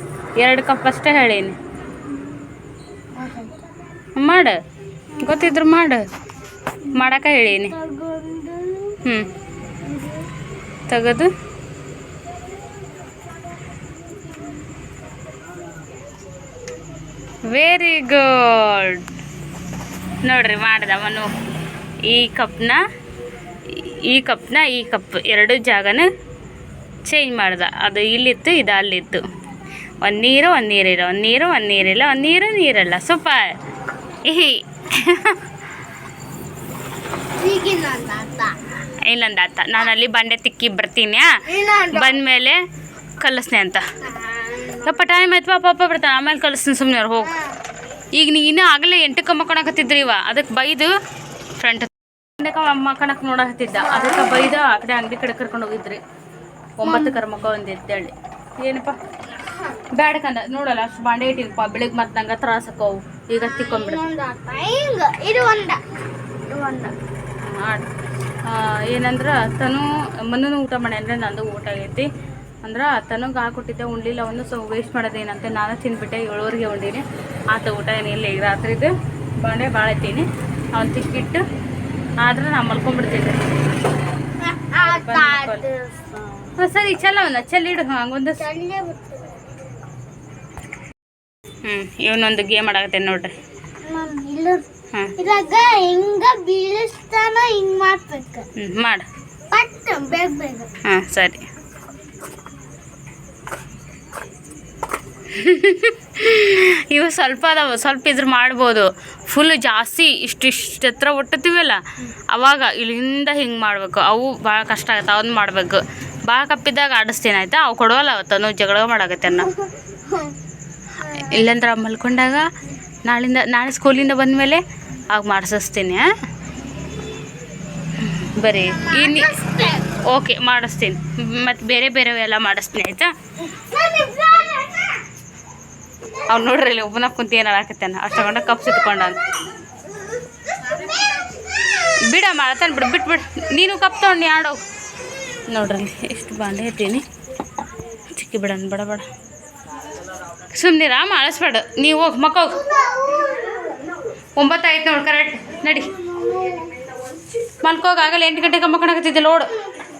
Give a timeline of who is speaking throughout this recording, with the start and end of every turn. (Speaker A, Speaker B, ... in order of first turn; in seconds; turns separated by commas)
Speaker A: 0.4-1.6, Speaker B: 3.1-3.5, Speaker A: 4.2-4.6, Speaker A: 5.2-6.0, Speaker A: 6.9-7.7, Speaker B: 7.6-9.0, Speaker B: 9.8-10.2, Speaker A: 10.9-11.3, Speaker A: 17.5-19.0, Speaker A: 20.2-21.3, Speaker A: 22.1-22.8, Speaker A: 23.7-26.1, Speaker A: 27.1-29.2, Speaker A: 30.0-33.5, Speaker A: 34.2-35.4, Speaker B: 37.4-38.5, Speaker A: 39.0-41.3, Speaker B: 41.5-42.2, Speaker A: 41.9-42.6, Speaker A: 43.2-43.9, Speaker B: 44.0-45.0, Speaker A: 44.8-47.3, Speaker A: 48.1-50.9, Speaker A: 51.6-56.0, Speaker B: 53.8-54.6, Speaker A: 56.8-58.9, Speaker B: 56.8-57.1, Speaker A: 59.9-64.0, Speaker B: 63.4-65.8, Speaker B: 66.5-66.9, Speaker A: 67.4-67.9, Speaker A: 68.4-72.1, Speaker A: 72.6-81.4, Speaker A: 82.2-83.4, Speaker B: 84.4-86.5, Speaker A: 84.8-85.6, Speaker A: 86.6-88.4, Speaker B: 88.4-89.3, Speaker A: 91.7-93.3, Speaker B: 93.8-94.6, Speaker B: 95.2-98.5, Speaker A: 98.6-99.0, Speaker B: 99.5-100.7, Speaker A: 100.8-101.4, Speaker A: 105.3-111.8, Speaker A: 112.3-119.5, Speaker B: 119.4-120.3, Speaker A: 121.1-122.5, Speaker A: 123.0-126.0, Speaker A: 128.0-129.4, Speaker B: 128.8-129.9, Speaker A: 130.0-133.1, Speaker B: 133.4-135.0, Speaker A: 136.3-139.2, Speaker B: 140.6-141.4, Speaker A: 142.1-144.6, Speaker A: 145.5-147.0, Speaker A: 148.1-149.1, Speaker A: 150.5-152.6, Speaker B: 152.5-153.8, Speaker A: 154.4-155.9, Speaker B: 155.9-156.7, Speaker A: 157.6-159.5